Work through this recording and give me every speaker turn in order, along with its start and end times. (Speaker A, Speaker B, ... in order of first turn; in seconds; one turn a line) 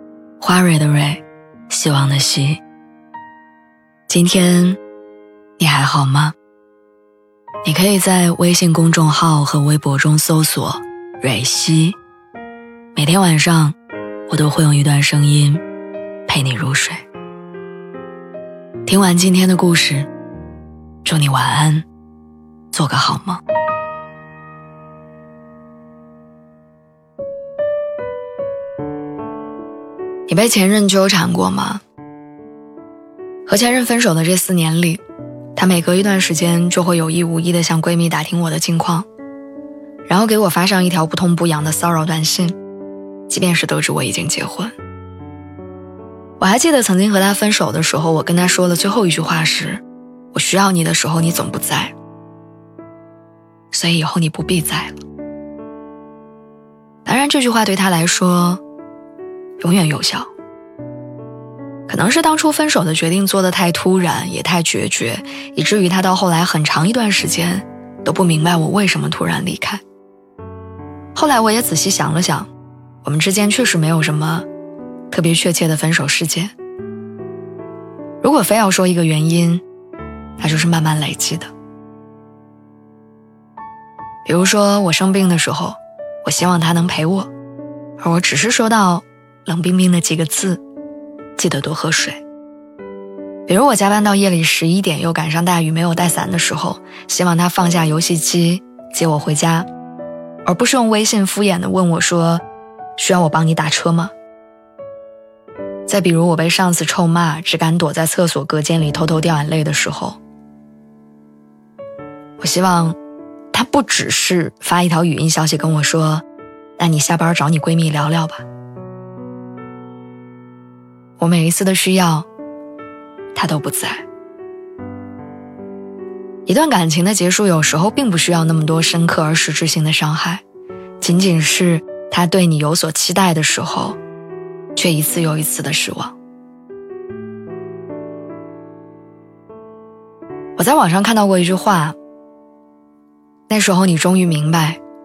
Speaker A: 0.4-2.6
Speaker A: 4.1-4.8
Speaker A: 5.6-6.3
Speaker A: 7.6-12.0
Speaker A: 12.9-13.8
Speaker A: 14.3-15.6
Speaker A: 16.3-17.0
Speaker A: 18.9-20.1
Speaker A: 21.0-21.9
Speaker A: 22.7-23.4
Speaker A: 30.3-31.8
Speaker A: 33.5-35.0
Speaker A: 35.5-39.1
Speaker A: 40.1-42.6
Speaker A: 43.3-44.7
Speaker A: 46.4-51.9
Speaker A: 53.7-55.0
Speaker A: 57.0-58.6
Speaker A: 59.6-60.3
Speaker A: 61.9-69.8
Speaker A: 71.2-72.5
Speaker A: 73.0-74.5
Speaker A: 75.1-76.5
Speaker A: 78.2-79.6
Speaker A: 80.4-81.5
Speaker A: 84.2-87.3
Speaker A: 88.0-90.6
Speaker A: 91.4-92.2
Speaker A: 93.5-99.7
Speaker A: 100.5-102.4
Speaker A: 103.0-104.1
Speaker A: 105.9-110.2
Speaker A: 112.4-113.0
Speaker A: 113.5-116.2
Speaker A: 116.8-118.5
Speaker A: 121.2-122.3
Speaker A: 123.3-124.0
Speaker A: 126.5-130.4
Speaker A: 131.0-134.0
Speaker A: 134.8-136.2
Speaker A: 140.6-142.0
Speaker A: 143.5-144.8